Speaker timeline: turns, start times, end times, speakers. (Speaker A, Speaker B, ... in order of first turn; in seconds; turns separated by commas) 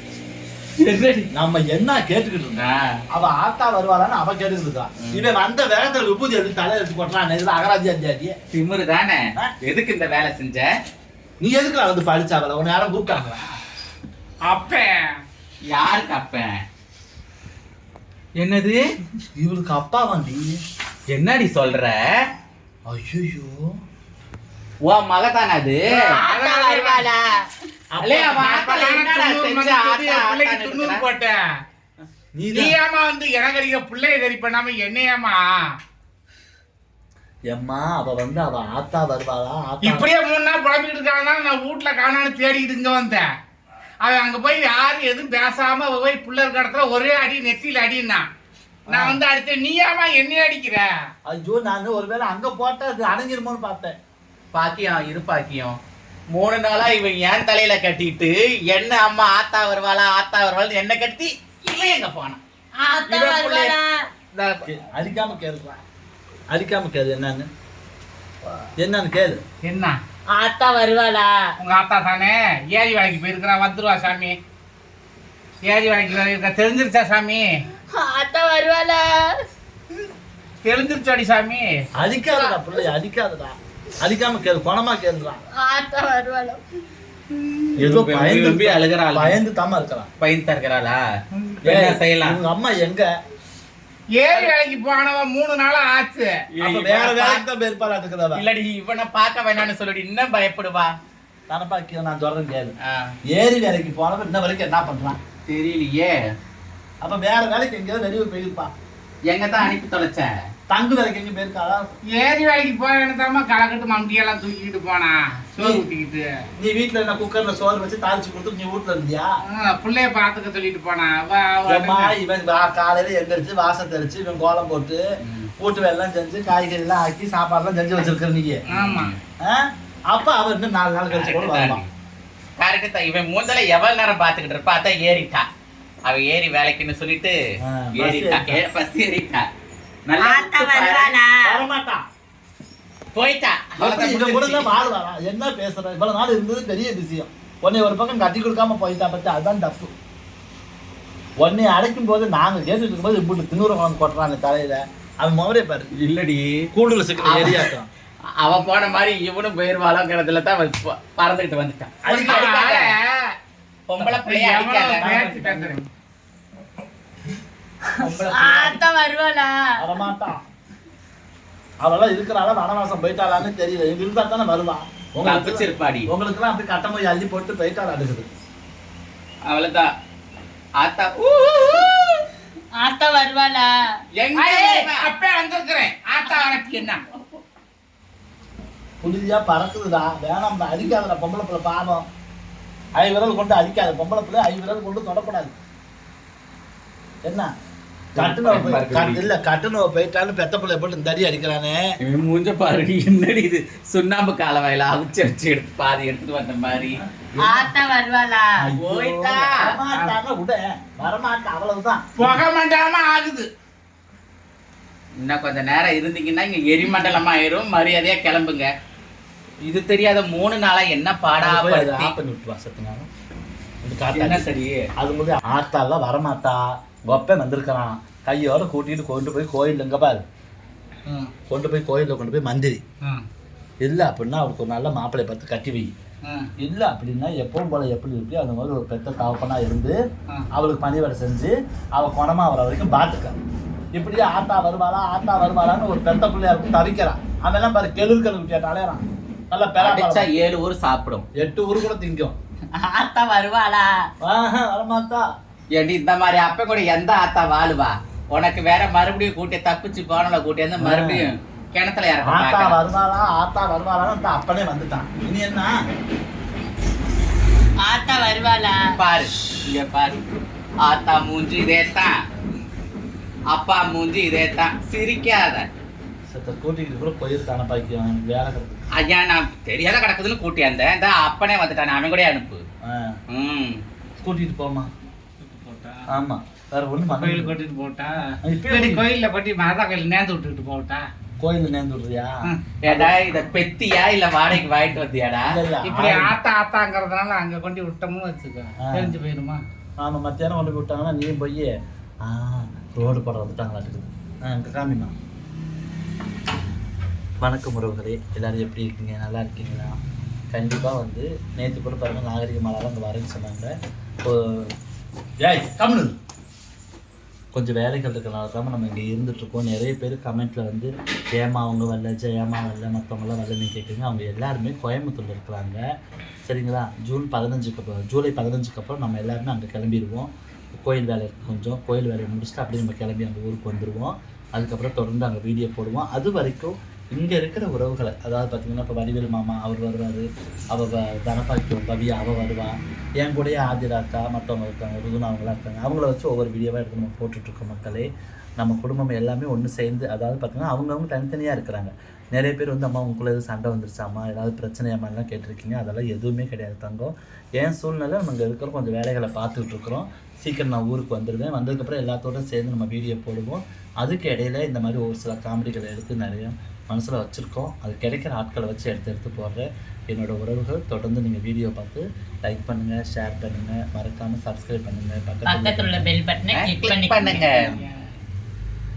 Speaker A: 0.8-1.3, Speaker B: 1.3-8.3, Speaker A: 2.6-3.0, Speaker A: 8.5-10.7, Speaker B: 11.4-13.4, Speaker C: 14.4-15.1, Speaker A: 15.7-16.6, Speaker A: 18.4-18.8, Speaker B: 19.2-20.6, Speaker A: 21.1-22.0, Speaker B: 22.9-23.7, Speaker A: 24.8-25.8, Speaker C: 26.0-27.1, Speaker D: 26.1-27.2, Speaker B: 27.9-28.6, Speaker A: 28.0-31.1, Speaker C: 28.4-31.4, Speaker B: 32.0-32.8, Speaker C: 32.5-35.6, Speaker B: 37.5-40.1, Speaker C: 39.8-43.3, Speaker C: 44.0-48.2, Speaker B: 48.9-49.2, Speaker C: 48.9-50.9, Speaker B: 51.2-54.0, Speaker A: 54.5-55.8, Speaker A: 56.3-62.4, Speaker D: 62.8-63.9, Speaker A: 63.0-63.7, Speaker A: 64.3-64.7, Speaker B: 64.6-65.8, Speaker B: 66.5-67.5, Speaker B: 68.8-69.4, Speaker C: 69.6-70.0, Speaker D: 70.3-71.3, Speaker C: 71.6-74.4, Speaker C: 75.6-77.6, Speaker D: 77.9-79.1, Speaker C: 80.6-81.8, Speaker B: 82.0-85.4, Speaker D: 85.6-86.6, Speaker A: 87.6-89.4, Speaker B: 87.8-90.1, Speaker A: 90.2-91.0, Speaker B: 91.6-93.1, Speaker A: 91.7-92.4, Speaker C: 94.1-96.3, Speaker A: 94.3-94.5, Speaker A: 96.5-97.4, Speaker B: 96.6-98.4, Speaker A: 98.3-100.9, Speaker B: 101.5-102.7, Speaker A: 102.8-103.1, Speaker B: 103.3-105.2, Speaker A: 105.5-106.2, Speaker B: 107.0-108.7, Speaker A: 109.3-110.3, Speaker B: 110.7-111.9, Speaker C: 112.1-116.3, Speaker B: 115.6-115.8, Speaker B: 116.6-119.3, Speaker C: 119.5-122.1, Speaker B: 121.7-125.0, Speaker A: 125.2-125.5, Speaker B: 125.6-128.6, Speaker A: 128.7-129.2, Speaker C: 128.7-129.1, Speaker B: 129.4-131.8, Speaker A: 131.1-131.9, Speaker A: 132.6-135.5, Speaker A: 136.1-137.3, Speaker B: 137.6-138.6, Speaker A: 138.0-139.4, Speaker A: 140.1-141.2, Speaker D: 140.2-141.4, Speaker B: 141.4-142.0, Speaker A: 143.1-144.7, Speaker B: 143.8-149.9, Speaker B: 151.4-155.9, Speaker A: 156.0-156.7, Speaker B: 156.7-157.9, Speaker A: 157.2-157.7, Speaker A: 158.4-162.9, Speaker B: 162.0-162.6, Speaker C: 162.1-163.3, Speaker A: 163.9-165.1, Speaker C: 164.0-165.8, Speaker B: 164.9-165.8, Speaker B: 168.0-168.8, Speaker D: 168.1-169.7, Speaker B: 169.8-170.4, Speaker B: 171.8-178.3, Speaker A: 175.2-176.1, Speaker A: 179.4-179.9, Speaker A: 180.8-182.2, Speaker D: 182.8-183.7, Speaker A: 184.2-185.1, Speaker C: 184.3-187.0, Speaker B: 189.0-192.1, Speaker B: 193.0-195.5, Speaker B: 197.2-197.5, Speaker A: 198.1-199.3, Speaker B: 198.2-201.8, Speaker A: 202.0-207.0, Speaker B: 207.0-207.7, Speaker D: 207.4-208.6, Speaker B: 208.6-212.4, Speaker A: 208.8-209.7, Speaker C: 209.9-210.1, Speaker C: 212.2-213.5, Speaker A: 215.2-218.7, Speaker A: 219.6-222.1, Speaker B: 221.4-223.1, Speaker B: 223.8-230.2, Speaker A: 224.1-224.9, Speaker C: 231.1-231.3, Speaker B: 231.5-232.8, Speaker B: 233.8-235.9, Speaker B: 236.6-240.0, Speaker B: 240.5-243.3, Speaker B: 243.9-250.3, Speaker A: 249.8-251.2, Speaker B: 251.3-252.3, Speaker D: 252.8-253.9, Speaker B: 254.2-255.2, Speaker A: 255.8-262.8, Speaker B: 260.8-261.3, Speaker B: 262.2-265.7, Speaker D: 267.8-268.8, Speaker A: 269.0-270.2, Speaker A: 270.8-272.1, Speaker A: 273.5-275.7, Speaker B: 276.3-278.8, Speaker A: 279.0-282.6, Speaker B: 282.8-283.2, Speaker A: 283.3-283.8, Speaker B: 284.2-284.9, Speaker C: 285.4-286.1, Speaker B: 286.1-287.5, Speaker C: 287.1-291.0, Speaker B: 288.4-289.1, Speaker B: 291.4-293.1, Speaker A: 292.8-295.6, Speaker B: 295.4-296.4, Speaker C: 295.8-299.6, Speaker B: 298.8-299.1, Speaker B: 300.0-301.7, Speaker B: 302.2-305.1, Speaker B: 307.4-310.0, Speaker B: 310.5-313.7, Speaker B: 314.2-314.7, Speaker B: 315.4-316.1, Speaker B: 317.5-325.8, Speaker B: 326.5-348.1, Speaker B: 348.6-376.1, Speaker D: 375.4-377.6, Speaker A: 376.5-377.8, Speaker C: 377.2-378.1